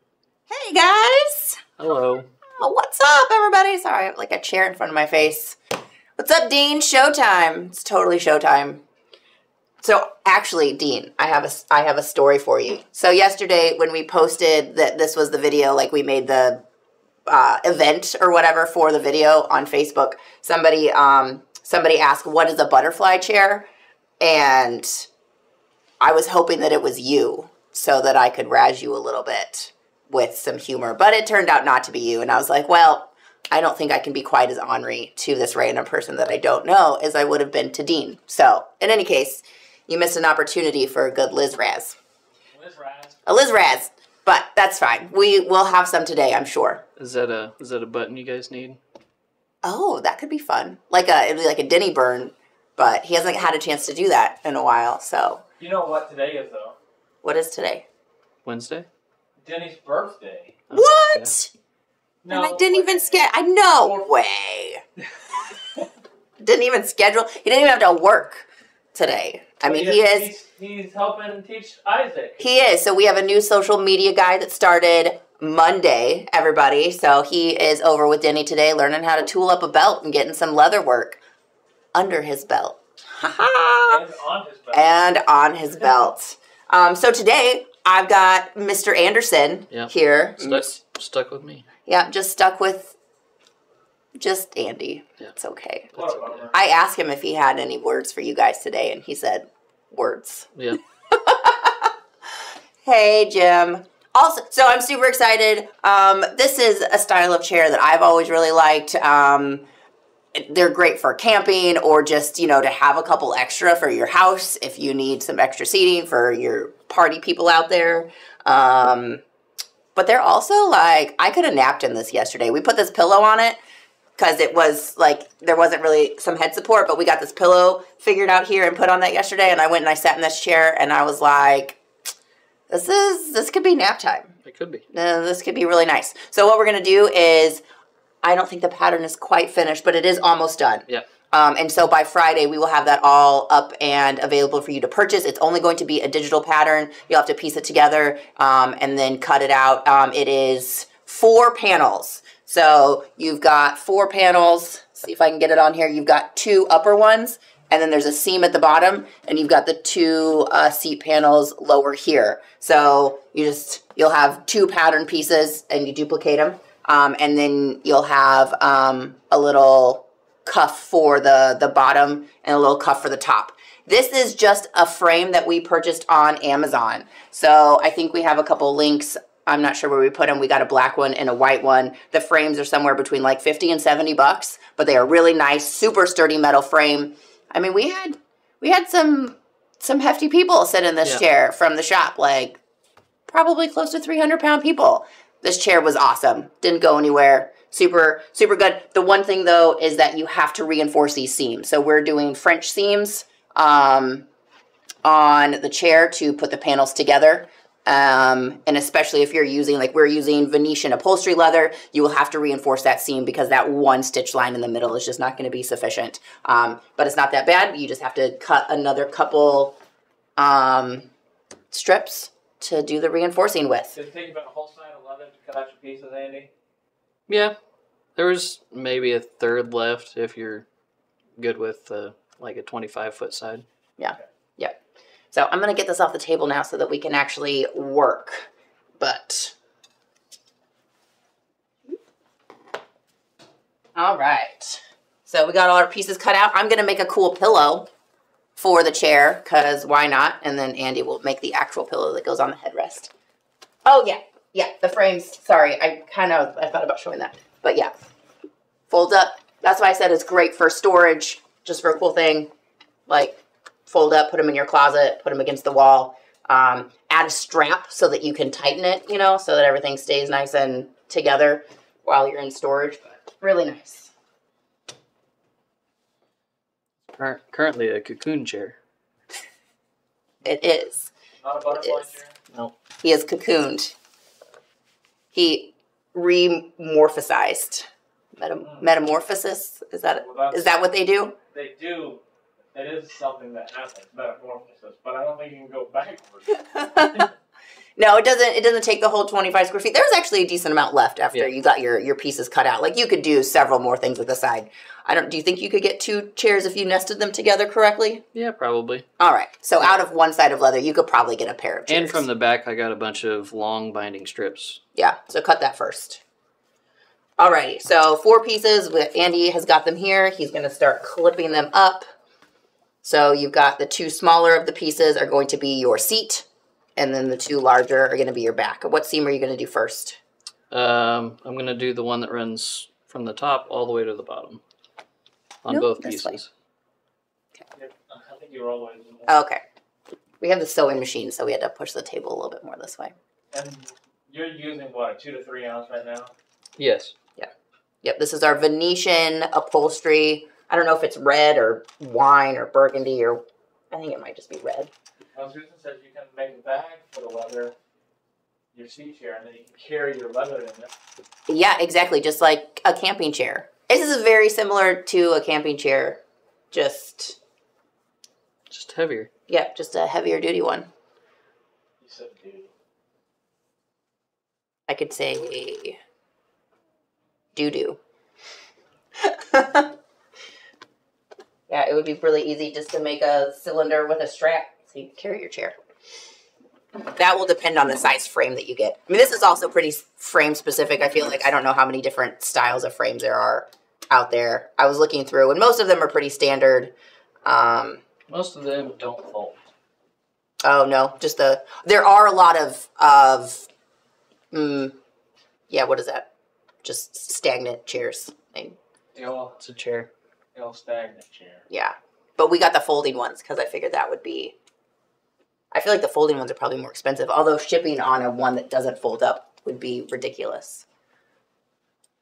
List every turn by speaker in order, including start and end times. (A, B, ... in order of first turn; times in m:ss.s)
0:00.5-0:01.6 A
0:01.8-0:02.3 B
0:02.5-0:05.6 A
0:06.2-0:08.8 A
0:09.8-0:16.6 A
0:17.3-0:23.7 A
0:24.2-0:25.1 A
0:26.0-0:42.0 A
0:42.5-0:43.2 C
0:43.3-0:46.8 A
0:47.0-0:48.8 B
0:49.6-0:55.4 A
0:55.6-0:56.8 C
0:57.2-0:57.8 A
0:58.4-0:58.9 B
0:59.4-1:00.6 C
1:00.7-1:01.4 B
1:00.7-1:01.5 A
1:02.2-1:04.0 C
1:02.3-1:04.8 A
1:06.4-1:10.3 A
1:09.6-1:12.4 C
1:12.4-1:21.2 A
1:21.9-1:24.0 A
1:23.9-1:25.1 C
1:24.7-1:30.7 A
1:29.7-1:31.7 B
1:31.9-1:33.0 A
1:34.2-1:36.0 A
1:35.9-1:36.5 B
1:36.5-1:40.5 A
1:40.5-1:40.8 B
1:41.1-1:41.9 A
1:42.8-1:49.7 A
1:50.3-1:59.2 A
2:00.0-2:03.6 A
2:04.2-2:11.8 A
2:12.7-2:14.4 A
2:14.4-2:14.9 B
2:14.9-2:17.6 A
2:18.2-3:12.6 A
3:13.3-3:24.3 A
3:25.0-3:39.8 A
3:40.4-3:41.1 A
3:41.7-3:44.0 A
3:44.0-3:46.5 C
3:47.3-3:47.6 B
3:48.2-3:50.7 B
3:51.4-3:53.7 B
3:54.0-3:54.8 A
3:55.3-3:59.5 A
4:04.0-4:07.9 A
4:08.6-4:13.1 A
4:13.8-4:17.9 A
4:18.9-4:22.5 A
4:23.1-4:34.1 A
4:37.1-4:38.8 B
4:40.4-4:41.1 A
4:41.4-4:42.3 C
4:41.7-4:42.2 A
4:43.0-4:43.9 A
4:45.3-4:51.3 A
4:50.2-4:50.8 C
4:51.5-4:52.2 C
4:52.7-4:57.3 C
4:56.7-4:57.3 A
4:58.0-5:08.2 A
5:08.3-5:09.1 B
5:09.2-5:12.2 A
5:11.9-5:14.8 B
5:15.0-5:16.2 A
5:17.4-5:22.1 A
5:23.0-5:30.2 A
5:30.7-5:34.6 B
5:35.6-5:36.5 B
5:35.7-5:36.4 A
5:37.7-5:39.4 C
5:39.3-5:39.6 A
5:40.4-5:43.1 A
5:43.5-5:46.3 C
5:46.8-5:47.1 B
5:48.0-5:54.9 A
5:55.3-5:57.7 C
5:58.7-6:00.9 C
6:01.5-6:07.4 A
6:08.7-6:09.3 B
6:09.5-6:10.9 A
6:12.0-6:12.7 C
6:14.9-6:16.0 A
6:17.5-6:18.0 A
6:19.2-6:19.9 A
6:21.7-6:25.8 A
6:27.2-6:36.9 A
6:37.4-6:38.0 A
6:38.3-6:39.6 B
6:40.6-6:43.7 A
6:44.5-6:45.0 A
6:45.7-6:46.3 A
6:46.8-6:48.8 A
6:49.1-6:49.5 C
6:49.6-6:50.1 B
6:50.5-6:51.7 C
6:51.7-6:54.5 A
6:55.7-7:00.8 A